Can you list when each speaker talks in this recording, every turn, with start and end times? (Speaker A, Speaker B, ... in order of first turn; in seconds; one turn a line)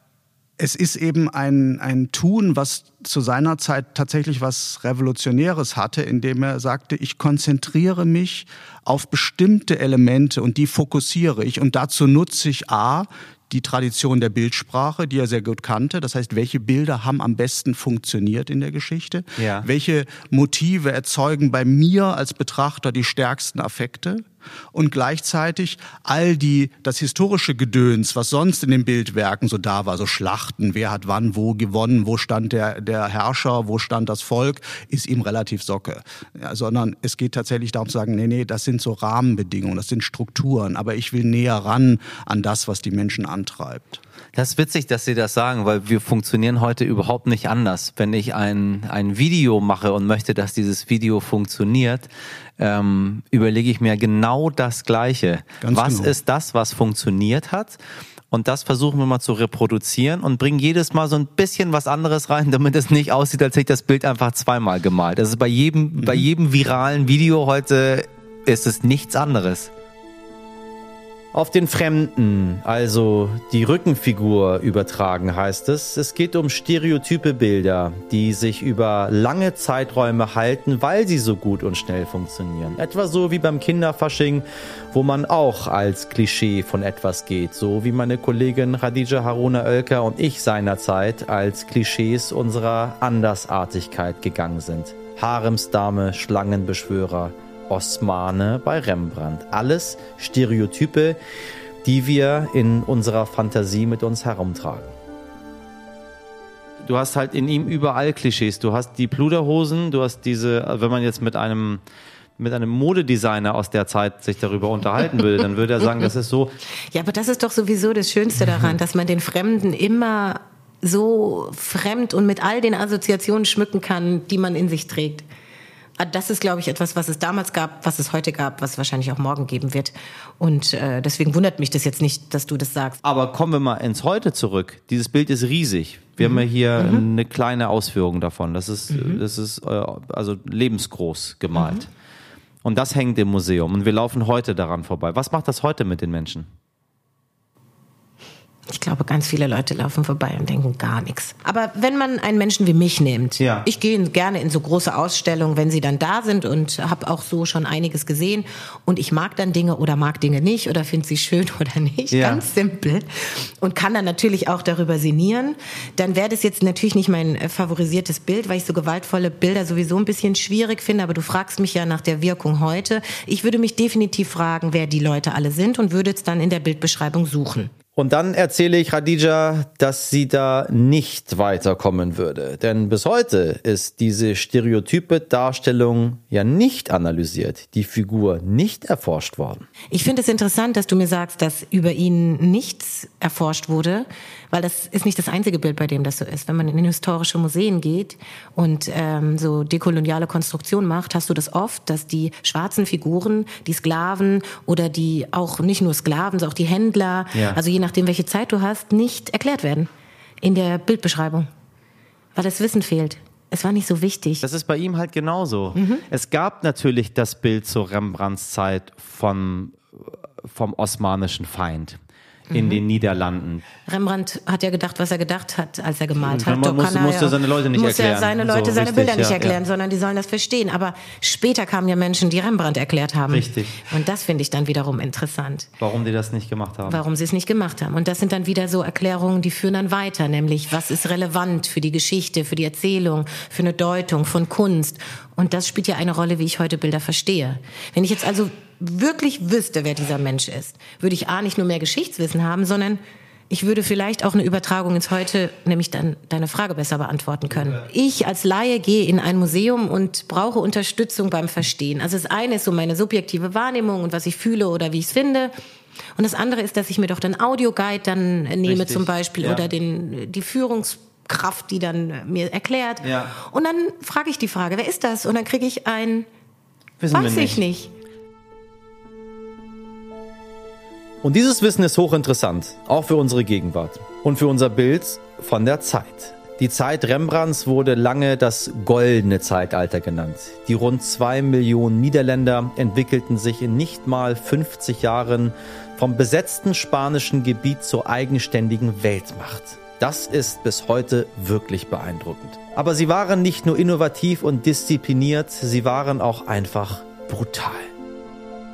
Speaker A: 0.6-44.0
Speaker B: 19.4-19.7
Speaker B: 44.3-57.8
Speaker A: 55.6-56.1
Speaker B: 58.3-69.7
Speaker A: 66.0-66.2
Speaker B: 71.3-101.2
Speaker B: 101.8-104.9
Speaker B: 106.8-111.8
Speaker B: 112.4-116.5
Speaker C: 116.9-125.2
Speaker C: 126.0-133.0
Speaker B: 133.0-141.9
Speaker C: 136.2-137.0
Speaker C: 138.9-139.2
Speaker C: 141.6-141.8
Speaker B: 142.6-146.5
Speaker C: 148.7-163.1
Speaker B: 153.4-153.7
Speaker B: 162.1-162.4
Speaker C: 163.6-177.7
Speaker B: 177.9-189.7
Speaker C: 189.9-209.9
Speaker B: 207.3-207.6
Speaker C: 210.4-211.5
Speaker C: 212.3-214.4
Speaker B: 214.4-222.0
Speaker C: 215.8-216.0
Speaker C: 222.5-222.8
Speaker B: 222.5-223.6
Speaker C: 223.8-235.7
Speaker B: 226.2-229.6
Speaker B: 233.3-233.8
Speaker B: 235.8-237.0
Speaker C: 236.8-265.5
Speaker C: 266.1-276.3
Speaker B: 268.6-269.7
Speaker B: 273.0-273.3
Speaker B: 277.0-277.6
Speaker C: 277.1-277.9
Speaker B: 281.2-307.9